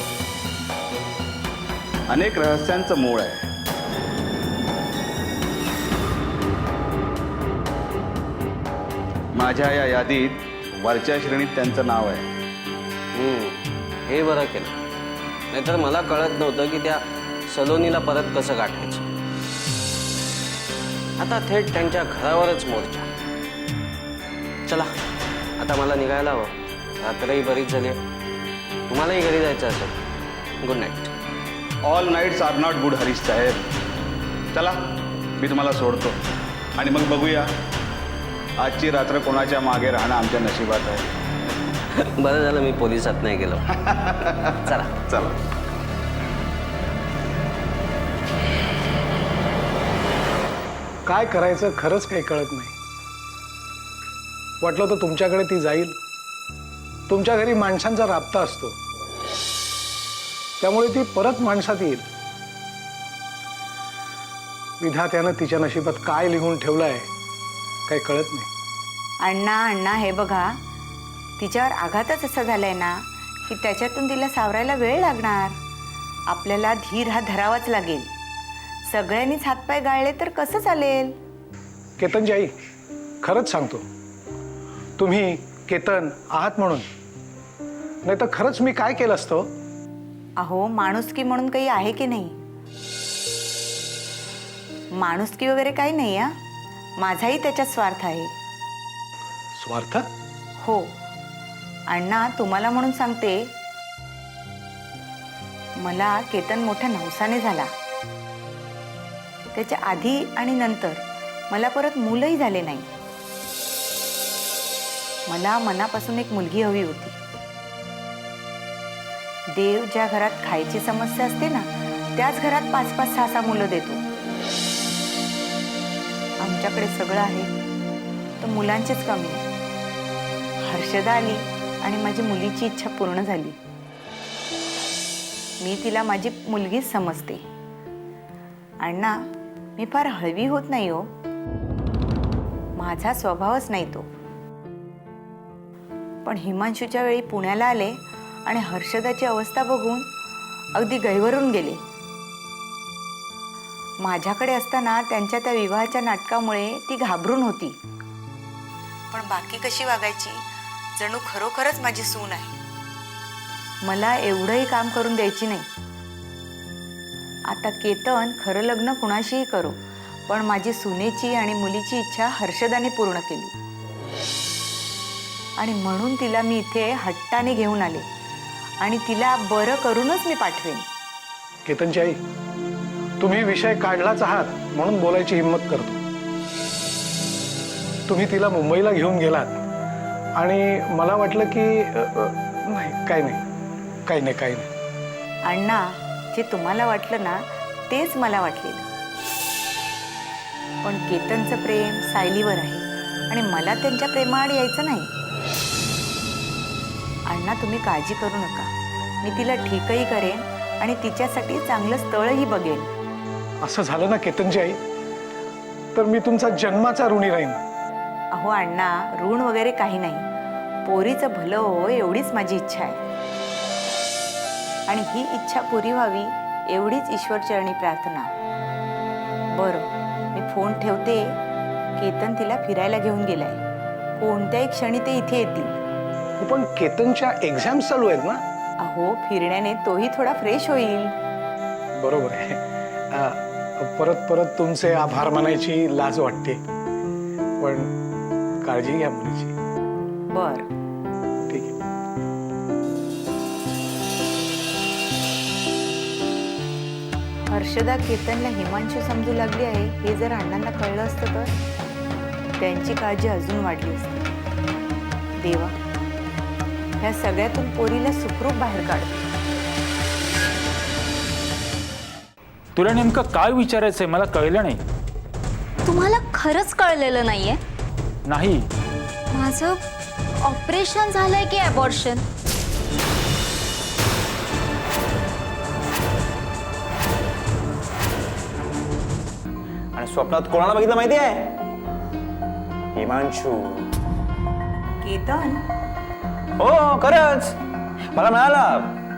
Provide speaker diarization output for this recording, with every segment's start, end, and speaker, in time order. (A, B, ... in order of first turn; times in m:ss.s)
0:02.1-0:03.4 A
0:09.3-0:12.2 A
0:13.1-0:14.7 B
0:15.5-0:19.1 B
0:21.2-0:23.1 B
0:24.7-0:24.9 B
0:25.6-0:28.0 B
0:28.9-0:29.9 B
0:30.6-0:31.1 B
0:31.8-0:33.6 A
0:35.4-0:36.2 A
0:36.8-0:37.5 A
0:38.6-0:41.1 A
0:41.9-0:43.6 B
0:43.7-0:45.4 A
0:44.6-0:44.9 B
0:51.0-0:52.7 C
0:54.6-0:56.0 C
0:57.1-0:58.8 C
1:00.6-1:02.0 C
1:04.8-1:07.1 C
1:07.9-1:08.5 C
1:09.2-1:10.6 D
1:11.4-1:15.6 D
1:16.3-1:18.1 D
1:18.9-1:21.2 D
1:22.0-1:22.5 C
1:23.2-1:23.8 C
1:25.0-1:26.9 C
1:28.0-1:29.5 C
1:30.4-1:32.4 D
1:35.0-1:36.3 D
1:37.0-1:38.3 D
1:39.5-1:40.1 C
1:40.6-1:40.9 D
1:41.9-1:43.5 D
1:45.8-1:47.7 D
1:49.5-1:52.9 D
1:55.3-1:57.2 D
1:59.5-2:04.0 D
2:06.4-2:07.5 D
2:08.4-2:09.4 D
2:10.6-2:13.6 D
2:15.6-2:17.4 D
2:18.8-2:19.2 D
2:19.8-2:21.1 D
2:22.8-2:24.1 D
2:26.2-2:30.1 D
2:30.7-2:31.8 D
2:34.0-2:37.8 D
2:39.1-2:42.6 D
2:43.8-2:45.7 D
2:47.5-2:53.5 D
2:55.6-2:58.0 D
2:58.8-3:00.8 D
3:01.6-3:02.2 C
3:03.2-3:06.0 C
3:08.1-3:09.6 C
3:10.4-3:13.4 C
3:14.0-3:14.7 C
3:15.4-3:18.9 D
3:20.8-3:25.1 D
3:27.3-3:28.7 D
3:29.2-3:32.9 D
3:33.6-3:34.8 C
3:35.9-3:37.6 C
3:38.3-3:40.2 D
3:40.8-3:43.0 D
3:44.9-3:48.3 D
3:49.5-3:51.4 D
3:52.0-3:53.6 D
3:54.2-3:55.7 D
3:56.4-3:58.4 C
3:58.8-4:01.1 D
4:02.0-4:06.6 C
4:07.6-4:07.9 C
4:08.6-4:09.5 C
4:10.3-4:10.7 D
4:11.5-4:11.7 C
4:17.5-4:21.5 D
4:22.6-4:24.3 D
4:25.4-4:25.7 D
4:27.0-4:29.3 D
4:32.7-4:34.8 E
4:35.8-4:37.6 F
4:38.3-4:38.7 E
4:39.3-4:39.8 F
4:40.4-4:42.2 F
4:49.9-4:51.6 G
4:52.9-4:53.9 G
4:55.0-4:55.6 D
4:56.6-4:57.6 G
4:58.1-4:59.0 G